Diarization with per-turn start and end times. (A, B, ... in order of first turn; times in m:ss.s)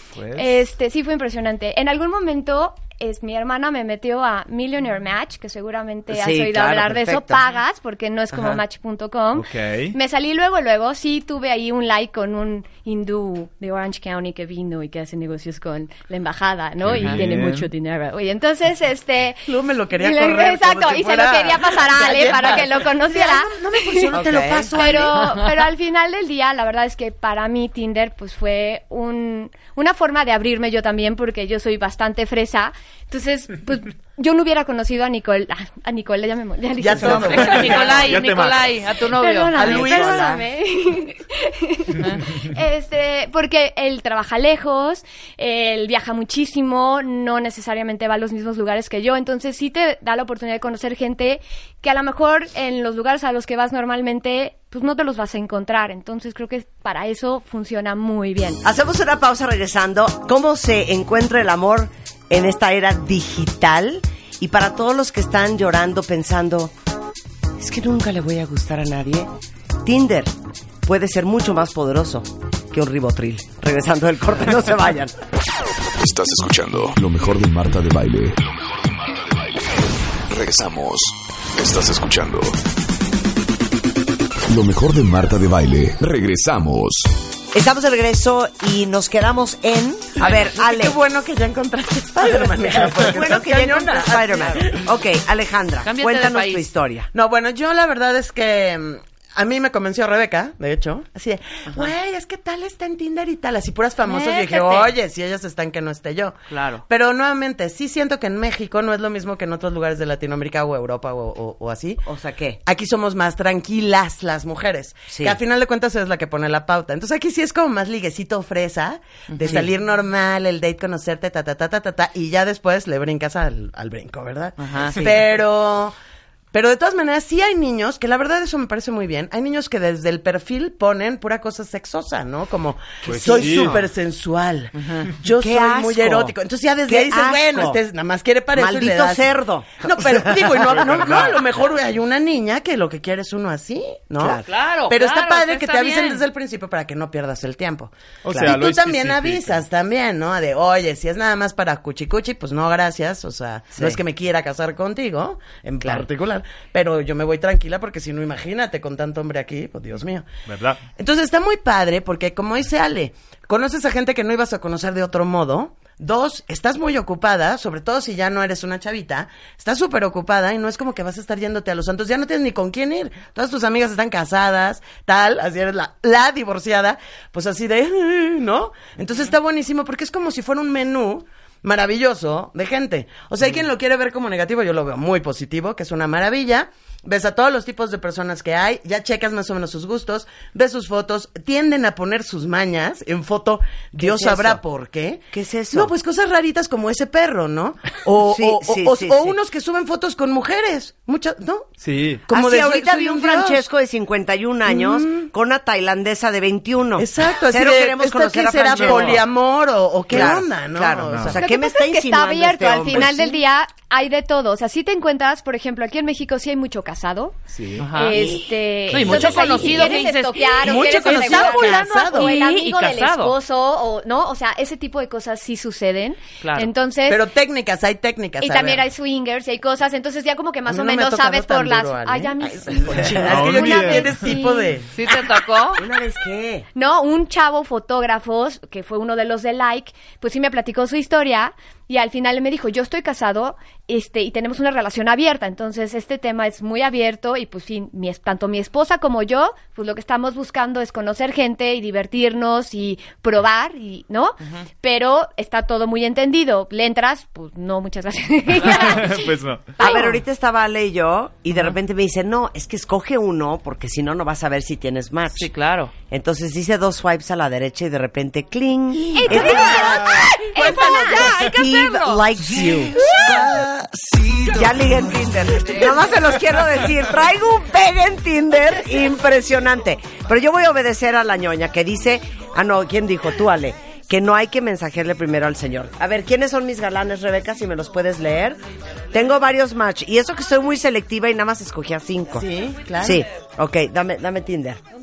0:00.2-0:00.6 A
0:00.3-0:24.2 B
0:06.1-0:07.6 C
0:08.3-0:08.6 C
0:09.3-0:10.0 A
0:16.8-0:17.7 A
0:19.5-0:25.4 D
0:24.1-0:25.0 C
0:24.7-0:38.0 B
0:36.8-0:38.2 D
0:37.0-0:40.0 E
0:37.4-0:38.7 A
0:39.2-0:58.6 B
0:39.5-0:40.4 D
0:39.8-0:40.4 C
0:58.6-1:06.7 C
1:07.6-1:09.3 C
1:09.8-1:15.2 C
1:16.0-1:22.6 F
1:24.5-1:27.1 F
1:27.5-1:31.0 C
1:30.2-1:34.9 D
1:32.2-1:37.1 C
1:35.8-1:36.7 E
1:37.1-1:46.4 D
1:44.0-1:45.0 E
1:46.5-1:46.8 E
1:46.9-1:52.0 D
1:52.0-1:52.6 C
1:52.7-2:06.0 D
1:55.1-1:55.4 C
1:59.3-1:59.6 E
1:59.4-1:59.7 C
2:04.6-2:05.1 E
2:04.9-2:05.2 C
2:06.5-2:19.3 D
2:13.0-2:13.9 A
2:13.1-2:13.8 C
2:14.8-2:15.1 E
2:15.3-2:17.8 C
2:18.5-2:21.3 C
2:19.8-2:40.3 D
2:20.7-2:21.4 A
2:24.2-2:24.5 C
2:24.5-2:26.2 E
2:28.2-2:29.6 A
2:33.7-2:34.0 C
2:40.5-2:40.8 A
2:41.0-3:21.7 D
3:14.0-3:14.6 C
3:15.3-3:15.9 C
3:18.2-3:19.4 C
3:21.8-3:22.2 A
3:22.3-3:23.6 D
3:22.3-3:29.2 C
3:24.7-3:25.3 D
3:27.0-3:31.4 D
3:28.8-3:29.2 A
3:30.1-3:33.4 C
3:31.1-3:31.4 A
3:31.3-3:47.2 B
3:32.9-3:33.2 D
3:37.5-3:37.9 A
3:37.8-3:38.2 E
3:38.1-3:38.4 C
3:38.9-3:43.4 E
3:40.6-3:42.3 D
3:46.4-3:46.7 E
3:47.1-3:48.8 D
3:48.4-3:54.8 B
3:50.7-3:54.9 D
3:53.2-3:54.3 A
3:54.9-3:55.8 E
3:55.8-3:56.7 C
3:56.8-4:20.2 B
4:18.6-4:19.9 A
4:19.8-4:25.5 C
4:25.4-4:25.9 E
4:26.1-4:33.2 C
4:29.2-4:31.4 B
4:29.2-4:31.3 D
4:29.9-4:30.3 A
4:30.6-4:32.3 E
4:33.0-4:34.7 D
4:34.4-4:48.6 C
4:35.7-4:36.1 D
4:49.1-4:54.8 C
4:52.3-4:53.3 D